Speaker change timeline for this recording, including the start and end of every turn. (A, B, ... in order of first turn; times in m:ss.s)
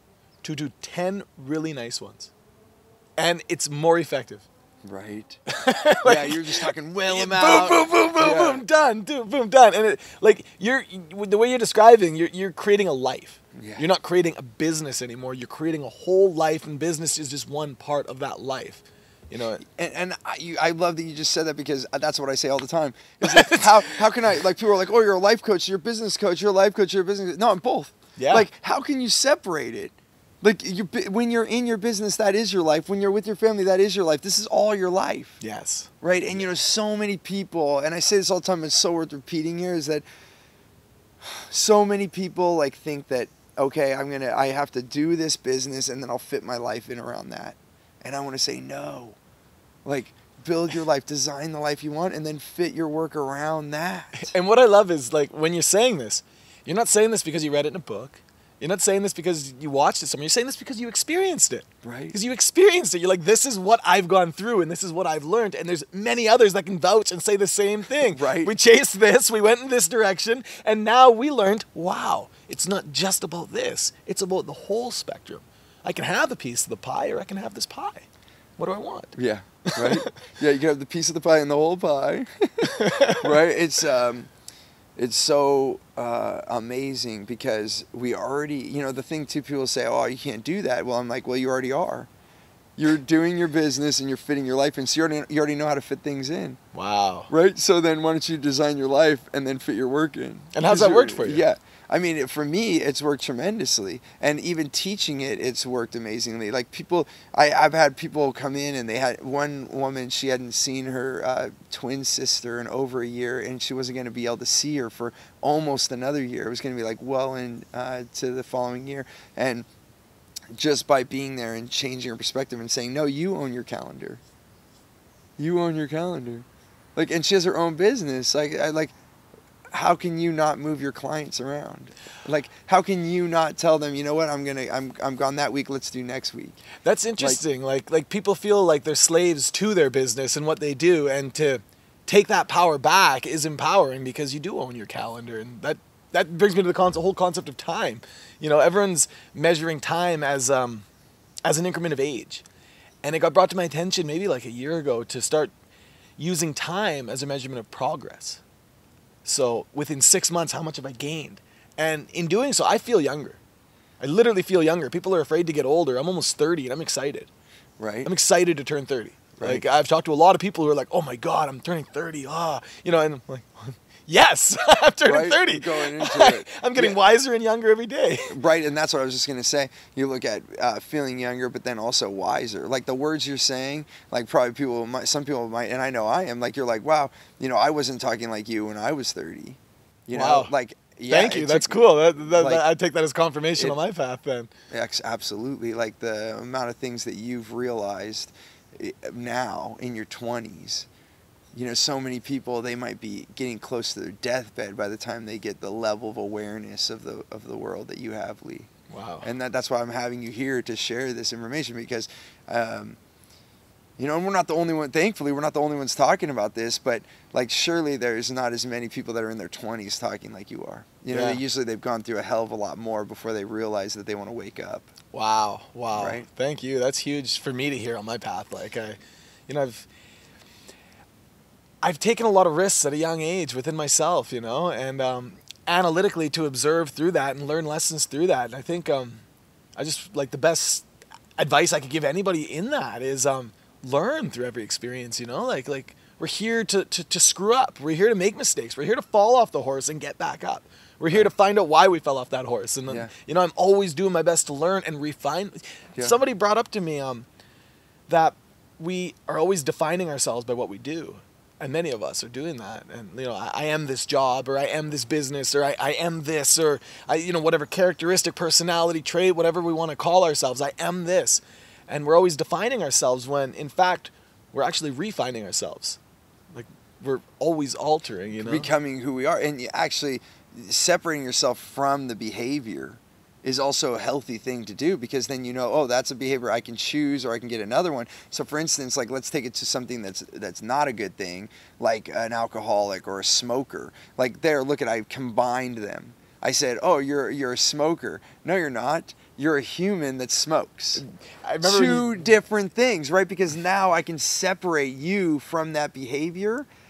0:00.4-0:02.3 A
0:03.2-0:04.5 A
0:04.8-0:05.4 B
0:05.5-0:19.6 A
0:06.0-0:08.6 B
0:13.6-0:13.9 B
0:19.6-0:35.4 B
0:23.2-0:24.0 A
0:28.2-0:28.5 A
0:35.4-0:35.9 A
0:36.0-0:40.0 B
0:41.2-0:49.2 B
0:49.8-0:54.3 B
0:54.1-1:18.1 A
1:01.8-1:02.2 B
1:08.1-1:08.5 B
1:18.6-1:19.2 A
1:19.2-1:24.3 B
1:19.7-1:20.1 A
1:22.6-1:23.3 A
1:25.0-1:32.1 B
1:32.8-1:36.6 B
1:36.7-1:37.3 A
1:37.3-1:59.7 B
1:40.5-1:41.4 A
2:00.5-2:04.2 B
2:05.4-2:06.4 B
2:07.0-2:08.9 B
2:09.7-2:16.6 B
2:16.8-2:30.9 A
2:31.4-2:32.4 A
2:33.0-2:35.5 A
2:36.2-2:38.4 A
2:39.2-2:43.4 A
2:44.0-2:47.3 A
2:47.8-2:48.1 B
2:48.0-2:58.4 A
2:49.4-2:49.6 B
2:55.1-2:57.0 B
2:58.3-3:12.6 B
3:10.1-3:10.5 A
3:11.1-3:14.5 A
3:14.7-3:20.9 B
3:21.5-3:28.7 B
3:28.9-3:29.3 A
3:29.2-3:33.0 B
3:34.0-3:44.9 B
3:41.1-3:41.4 A
3:45.1-3:49.9 A
3:45.9-3:46.3 B
3:51.8-3:59.2 A
3:59.8-4:00.9 A
4:01.4-4:17.3 A
4:18.1-4:36.0 A
4:36.5-4:38.7 A
4:38.4-5:01.0 B
5:01.0-5:02.3 A
5:01.6-5:06.7 B